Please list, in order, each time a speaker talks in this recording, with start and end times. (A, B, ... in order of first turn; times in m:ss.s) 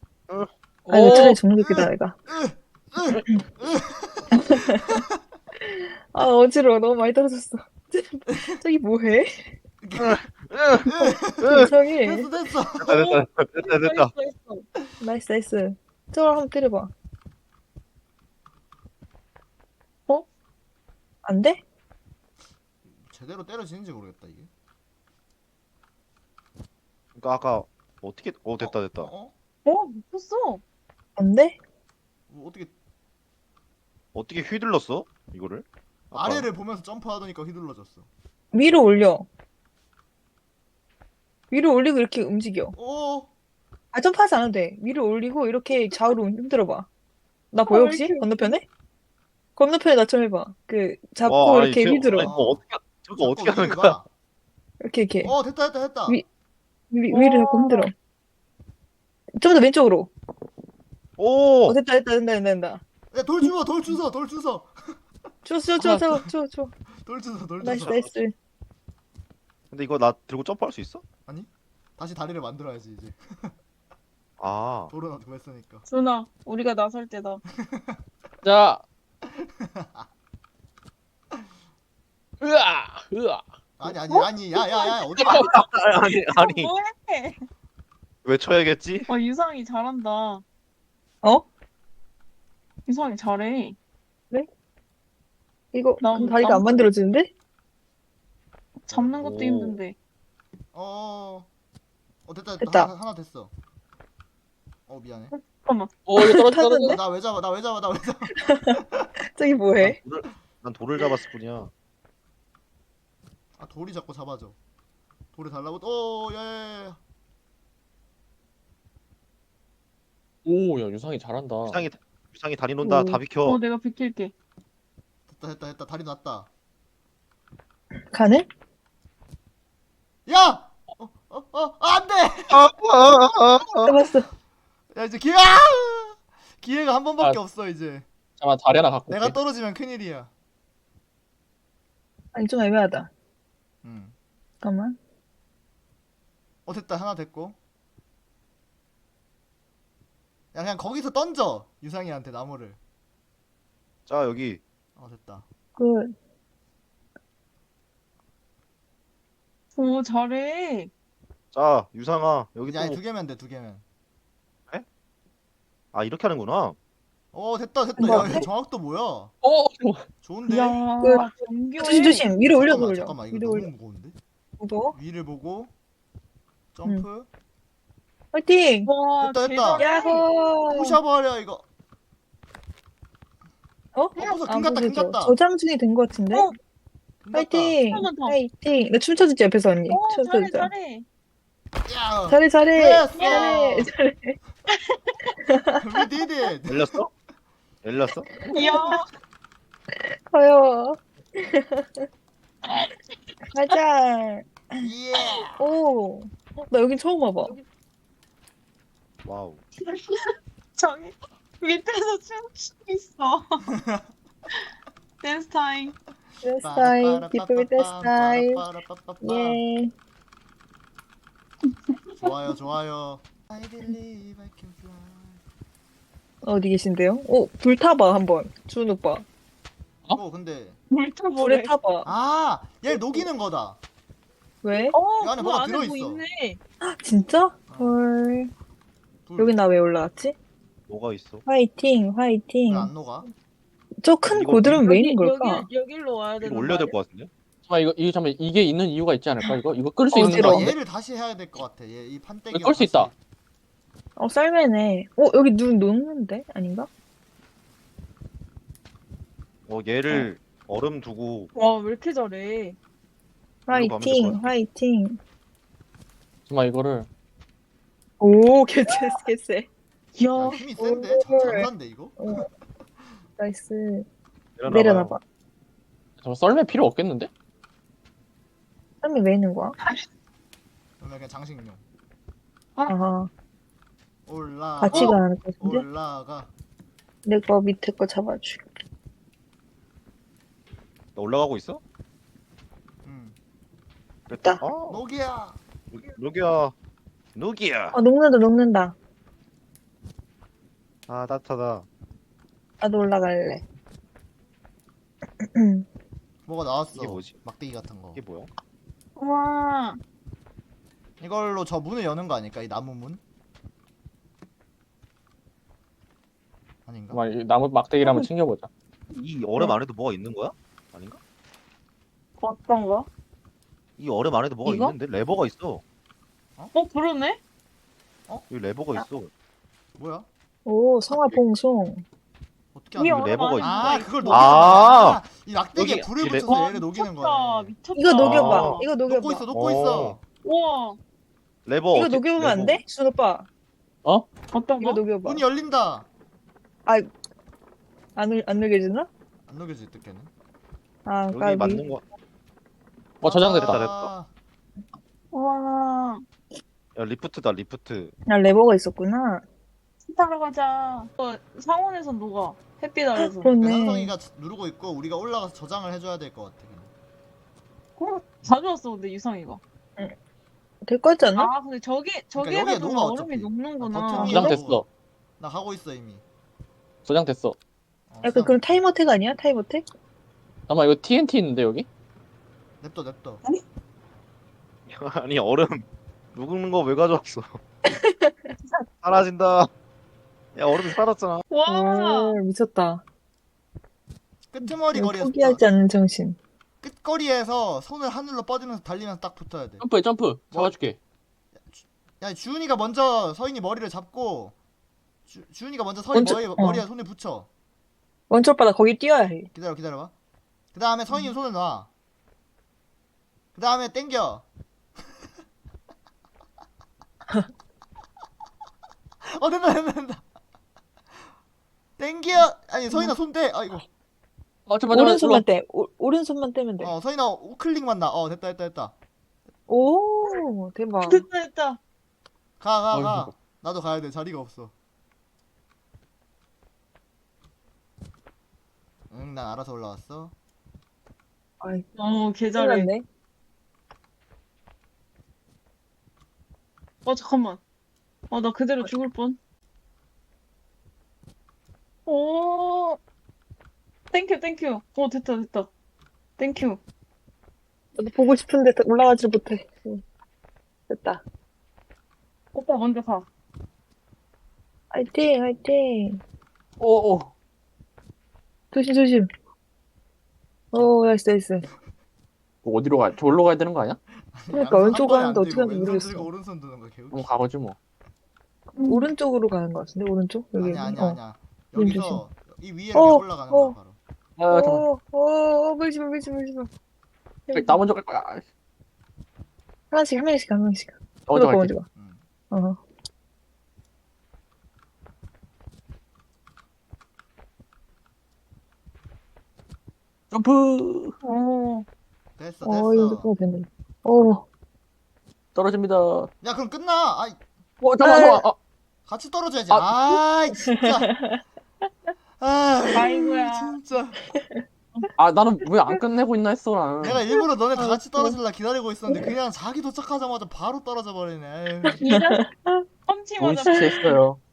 0:00.9-0:01.4 A
0:00.9-0:02.2 B
0:01.0-0:05.0 C
0:04.3-0:04.9 B
0:05.7-0:09.5 B
0:09.8-0:10.2 C
0:10.0-0:11.7 D
0:10.9-0:13.0 C
0:11.0-0:12.3 B
0:12.8-0:14.1 D
0:12.9-0:14.6 E
0:15.0-0:16.9 B
0:21.2-0:21.6 B
0:22.8-0:24.5 C
0:27.2-0:29.1 D
0:28.6-0:29.3 C
0:29.6-0:30.6 E
0:31.2-0:31.6 B
0:32.3-0:32.7 C
0:34.1-0:36.5 D
0:36.1-0:38.1 C
0:38.5-0:39.3 B
0:41.5-0:42.8 B
0:42.8-0:43.3 C
0:43.9-0:46.9 B
0:47.5-0:48.6 B
0:47.7-0:48.5 E
0:49.6-0:52.3 B
0:51.2-0:54.0 D
0:52.2-0:52.6 C
0:53.2-0:54.1 C
0:54.8-0:55.3 B
0:55.2-0:56.2 C
0:56.9-0:57.9 B
0:57.1-0:57.9 E
0:59.4-1:00.1 B
1:01.2-1:01.8 D
1:01.7-1:02.8 B
1:03.1-1:05.0 C
1:05.4-1:06.7 B
1:05.8-1:06.1 C
1:07.0-1:08.1 C
1:07.6-1:08.3 B
1:07.8-1:08.1 D
1:09.7-1:11.0 D
1:11.3-1:13.5 C
1:14.4-1:14.9 D
1:14.9-1:15.8 C
1:15.9-1:17.4 E
1:17.6-1:18.0 C
1:18.4-1:18.8 A
1:19.4-1:20.1 C
1:22.4-1:23.4 A
1:23.8-1:25.5 C
1:24.1-1:25.1 E
1:25.2-1:26.7 D
1:26.3-1:27.4 E
1:28.2-1:29.1 D
1:29.1-1:30.4 E
1:32.9-1:33.8 E
1:35.7-1:37.3 B
1:36.0-1:36.9 E
1:38.9-1:40.0 E
1:38.9-1:39.8 D
1:40.7-1:41.5 C
1:42.3-1:43.5 C
1:42.6-1:42.9 B
1:44.9-1:45.3 C
1:45.4-1:46.0 E
1:46.1-1:47.0 A
1:46.2-1:47.0 B
1:46.8-1:49.0 C
1:48.4-1:48.8 B
1:49.3-1:50.0 B
1:49.8-1:51.7 D
1:53.6-1:54.6 C
1:55.3-1:57.0 C
2:00.4-2:01.8 A
2:01.7-2:03.6 D
2:03.0-2:04.3 E
2:05.3-2:06.5 C
2:08.1-2:08.5 B
2:10.3-2:12.6 C
2:12.5-2:14.0 D
2:13.8-2:14.3 B
2:14.9-2:18.1 C
2:18.4-2:19.4 A
2:19.1-2:20.3 C
2:22.3-2:23.1 B
2:23.8-2:24.1 C
2:24.6-2:25.0 B
2:26.7-2:27.6 C
2:30.5-2:32.8 C
2:34.1-2:34.6 D
2:35.0-2:35.5 C
2:35.8-2:36.1 B
2:39.8-2:40.9 E
2:41.5-2:43.0 D
2:42.6-2:43.8 C
2:45.9-2:46.8 D
2:47.3-2:49.3 C
2:48.0-2:48.5 B
2:49.4-2:50.0 A
2:50.2-2:50.8 C
2:50.5-2:52.3 E
2:51.0-2:53.7 B
2:52.4-2:54.2 C
2:54.6-2:55.0 B
2:54.9-2:55.7 C
2:56.7-2:57.3 C
2:58.3-2:58.9 B
2:58.9-3:00.3 E
2:59.2-2:59.9 C
2:59.8-3:01.0 B
3:00.7-3:01.6 C
3:04.0-3:06.5 B
3:04.2-3:05.4 C
3:07.2-3:07.8 C
3:07.3-3:10.7 B
3:07.9-3:08.4 E
3:09.9-3:11.0 E
3:11.9-3:13.9 C
3:12.3-3:14.4 B
3:13.2-3:13.7 E
3:14.7-3:15.4 E
3:15.5-3:15.8 B
3:15.8-3:16.9 C
3:16.7-3:17.1 D
3:17.8-3:18.3 D
3:18.5-3:19.0 B
3:18.5-3:19.1 E
3:20.3-3:22.1 B
3:22.7-3:22.9 E
3:23.5-3:24.9 B
3:24.8-3:25.6 C
3:25.6-3:27.6 B
3:29.2-3:29.6 D
3:29.9-3:33.7 E
3:35.2-3:36.0 E
3:36.4-3:38.6 B
3:36.6-3:39.6 C
3:39.2-3:39.9 B
3:41.9-3:42.3 E
3:42.2-3:45.4 C
3:46.4-3:49.2 B
3:50.1-3:50.8 C
3:50.9-3:51.7 E
3:51.4-3:52.1 B
3:52.0-3:53.8 C
3:52.9-3:53.3 B
3:54.6-3:55.0 B
3:54.9-3:56.6 E
3:55.2-3:56.2 C
3:56.8-3:58.5 B
3:57.7-3:58.0 C
3:59.3-3:59.6 C
3:59.4-4:00.4 B
4:00.9-4:01.4 D
4:01.5-4:02.9 B
4:02.7-4:03.3 C
4:04.0-4:05.7 B
4:04.3-4:04.8 D
4:04.7-4:06.9 E
4:06.4-4:07.3 D
4:07.7-4:10.7 A
4:10.1-4:10.8 B
4:10.2-4:13.1 C
4:12.5-4:13.1 A
4:14.2-4:16.9 B
4:19.7-4:21.5 D
4:21.6-4:22.8 E
4:23.7-4:25.2 B
4:23.7-4:24.4 D
4:26.5-4:27.1 A
4:28.2-4:29.7 B
4:28.9-4:29.2 E
4:30.2-4:30.6 E
4:30.4-4:32.4 C
4:30.8-4:32.5 B
4:33.4-4:34.1 B
4:34.6-4:35.2 D
4:34.7-4:35.2 B
4:36.2-4:37.3 A
4:39.0-4:39.8 B
4:41.0-4:41.8 C
4:42.9-4:43.3 B
4:44.3-4:46.5 C
4:44.8-4:45.8 B
4:47.2-4:48.6 B
4:51.2-4:51.8 D
4:53.0-4:53.4 C
4:54.3-4:55.0 D
4:54.9-4:55.6 C
4:55.9-4:56.7 D
4:57.4-4:58.0 D
4:57.9-4:59.0 B
5:01.1-5:01.8 D
5:02.8-5:03.6 B
5:05.4-5:05.9 B
5:06.5-5:08.2 C
5:07.0-5:07.4 D
5:08.2-5:08.5 D
5:09.2-5:10.0 E
5:11.2-5:13.2 C
5:16.9-5:17.2 C
5:17.1-5:18.7 A
5:19.1-5:21.2 D
5:22.4-5:23.1 E
5:24.0-5:25.8 D
5:24.6-5:24.9 E
5:26.7-5:27.4 E
5:28.5-5:29.3 D
5:30.0-5:30.3 C
5:30.7-5:32.0 B
5:32.7-5:37.7 C
5:33.0-5:35.0 E
5:33.1-5:35.2 D
5:35.8-5:36.5 D
5:36.5-5:38.9 E
5:38.0-5:39.4 B
5:38.2-5:38.8 D
5:39.0-5:40.2 C
5:39.5-5:40.2 D
5:40.4-5:41.0 E
5:41.7-5:42.8 D
5:41.9-5:43.5 B
5:44.5-5:45.0 E
5:44.8-5:45.4 B
5:45.2-5:46.1 C
5:48.2-5:49.1 B
5:49.5-5:50.3 C
5:51.1-5:51.9 B
5:51.3-5:52.0 D
5:53.2-5:53.8 A
5:53.2-5:54.3 C
5:53.6-5:54.1 D
5:55.3-5:56.2 E
5:57.0-5:58.1 D
5:58.3-5:59.4 B
6:00.1-6:03.5 E
6:03.2-6:04.1 B
6:03.6-6:06.9 C
6:08.0-6:09.6 E
6:10.9-6:11.5 B
6:11.3-6:14.5 E
6:12.4-6:14.9 C
6:14.1-6:14.6 B
6:14.2-6:14.8 A
6:15.4-6:16.2 C
6:17.0-6:17.6 A
6:18.1-6:18.6 C
6:18.2-6:19.8 B
6:20.7-6:21.9 A
6:22.8-6:23.4 C
6:24.9-6:27.6 D
6:27.9-6:28.5 B
6:29.0-6:29.7 D
6:30.6-6:31.4 D
6:31.5-6:32.4 E
6:31.7-6:33.0 B
6:34.5-6:35.6 C
6:34.9-6:36.4 B
6:36.8-6:39.8 C
6:39.8-6:41.0 A
6:41.6-6:44.6 C
6:45.3-6:47.5 C
6:46.1-6:46.8 B
6:48.3-6:49.5 B
6:49.5-6:50.1 C
6:50.7-6:51.9 C
6:53.6-6:54.4 C
6:59.3-7:00.2 C
7:02.0-7:03.8 C
7:04.7-7:05.5 A
7:04.9-7:07.0 B
7:06.8-7:09.0 C
7:09.7-7:11.2 B
7:11.0-7:11.8 E
7:12.6-7:14.7 C
7:12.9-7:13.3 A
7:19.1-7:20.3 C
7:21.6-7:21.9 B
7:22.0-7:22.9 E
7:22.6-7:23.0 B
7:27.0-7:27.6 E
7:28.3-7:29.4 E
7:32.1-7:33.0 E
7:34.1-7:35.7 E
7:36.4-7:36.8 E
7:38.0-7:40.0 B
7:40.9-7:41.2 B
7:42.5-7:43.3 E
7:44.9-7:46.2 B
7:46.8-7:47.3 A
7:48.7-7:49.3 B
7:50.7-7:51.7 B
7:52.6-7:54.0 A
7:54.4-7:57.3 C
7:54.5-7:56.3 B
7:57.1-7:57.8 A
7:58.8-7:59.1 E
7:58.8-8:01.2 B
8:00.6-8:04.0 C
8:01.8-8:02.2 B
8:02.9-8:03.8 B
8:04.4-8:04.9 A
8:04.5-8:06.7 B
8:07.5-8:07.8 B
8:07.5-8:08.4 A
8:09.9-8:11.8 B
8:11.3-8:11.7 A
8:12.0-8:12.2 C
8:12.5-8:12.8 B
8:20.3-8:21.2 A
8:21.2-8:21.9 E
8:22.4-8:23.3 C
8:22.6-8:24.4 B
8:25.6-8:26.3 A
8:26.4-8:27.4 C
8:27.8-8:28.6 A
8:28.0-8:28.4 B
8:29.1-8:31.1 C
8:29.7-8:30.2 A
8:30.6-8:31.4 B
8:32.4-8:34.2 C
8:32.9-8:33.8 E
8:34.4-8:34.6 B
8:35.2-8:37.2 A
8:37.0-8:42.0 C
8:37.8-8:38.4 B
8:39.1-8:39.4 B
8:42.0-8:42.4 E
8:42.1-8:42.9 B
8:43.1-8:44.2 E
8:43.4-8:44.4 A